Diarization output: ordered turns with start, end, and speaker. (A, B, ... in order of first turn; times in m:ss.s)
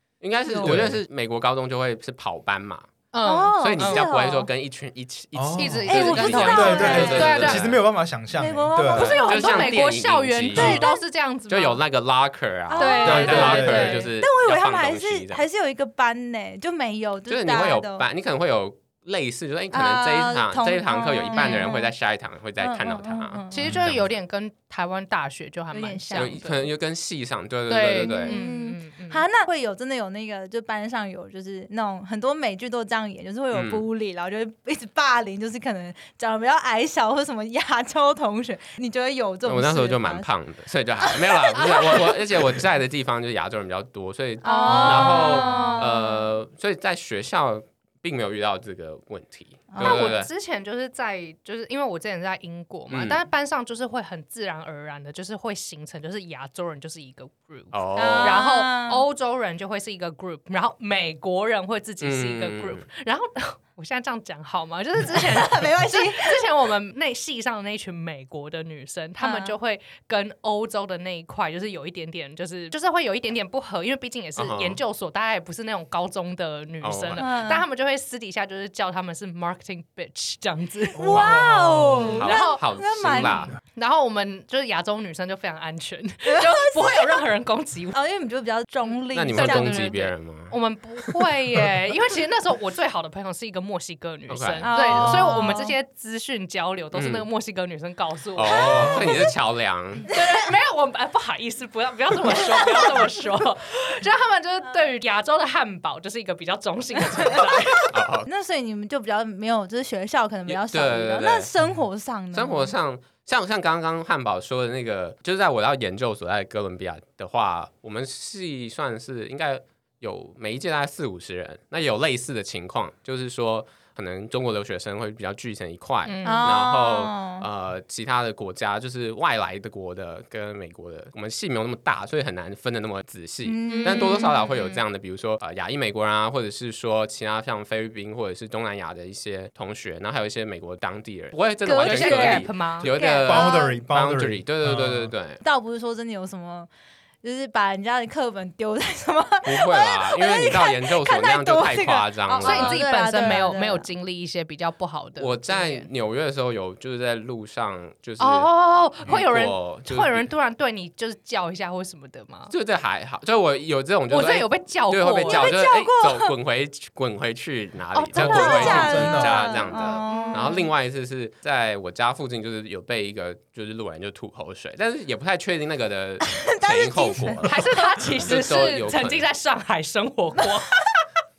0:00.2-0:02.9 A
0:00.5-0:00.8 B
0:00.6-0:01.0 C
0:03.1-0:04.1 D
0:03.2-0:04.5 B
0:03.5-0:07.8 A
0:05.3-0:09.1 C
0:05.6-0:07.7 D
0:05.9-0:07.4 B
0:08.3-0:09.8 B
0:08.9-0:11.8 D
0:08.9-0:10.9 A
0:10.5-0:11.0 B
0:11.5-0:15.4 A
0:12.7-0:18.0 B
0:12.8-0:14.1 D
0:13.0-0:14.0 C
0:17.3-0:24.0 A
0:19.7-0:21.9 B
0:21.3-0:21.7 D
0:22.6-0:23.6 B
0:23.5-0:26.7 D
0:23.6-0:24.0 C
0:25.7-0:26.4 B
0:26.1-0:28.4 A
0:27.7-0:29.2 D
0:28.0-0:40.3 B
0:33.5-0:33.8 A
0:39.4-0:50.3 A
0:41.5-0:42.0 B
0:41.6-0:42.0 D
0:44.4-0:46.2 B
0:44.4-0:45.9 D
0:49.7-0:50.1 B
0:49.8-1:21.0 D
0:52.9-0:53.2 A
0:57.7-0:58.4 A
0:57.9-0:59.0 B
1:02.0-1:02.8 A
1:05.0-1:06.4 B
1:09.2-1:09.6 B
1:14.4-1:14.8 A
1:16.8-1:17.2 A
1:17.2-1:17.6 B
1:20.9-1:23.5 B
1:21.0-1:22.2 C
1:21.0-1:21.5 A
1:22.0-1:22.6 D
1:22.1-1:23.6 A
1:23.6-1:28.0 D
1:26.3-1:27.2 B
1:27.9-1:30.1 B
1:28.8-1:39.1 D
1:29.1-1:31.2 A
1:34.3-1:35.1 A
1:34.6-1:35.7 B
1:36.9-1:37.2 A
1:38.4-1:40.1 A
1:38.4-1:39.3 B
1:38.7-1:39.2 C
1:40.1-1:47.9 D
1:47.9-1:48.3 A
1:48.2-1:52.7 B
1:50.5-1:51.5 A
1:52.3-2:25.4 A
2:06.0-2:06.6 D
2:06.2-2:07.4 B
2:13.4-2:14.3 B
2:13.7-2:14.8 D
2:21.6-2:23.8 B
2:21.7-2:22.9 D
2:23.2-2:25.1 C
2:25.4-2:26.7 B
2:27.2-2:33.9 B
2:29.4-2:33.4 A
2:32.4-2:35.9 D
2:35.2-2:38.5 A
2:38.2-2:42.5 D
2:39.0-2:40.2 A
2:42.5-2:57.5 A
2:44.1-2:45.6 D
2:45.2-2:46.3 B
2:47.9-2:50.6 D
2:48.0-2:50.7 B
2:48.2-2:49.4 C
2:56.3-2:57.8 B
2:57.4-3:00.7 D
2:58.2-2:59.2 A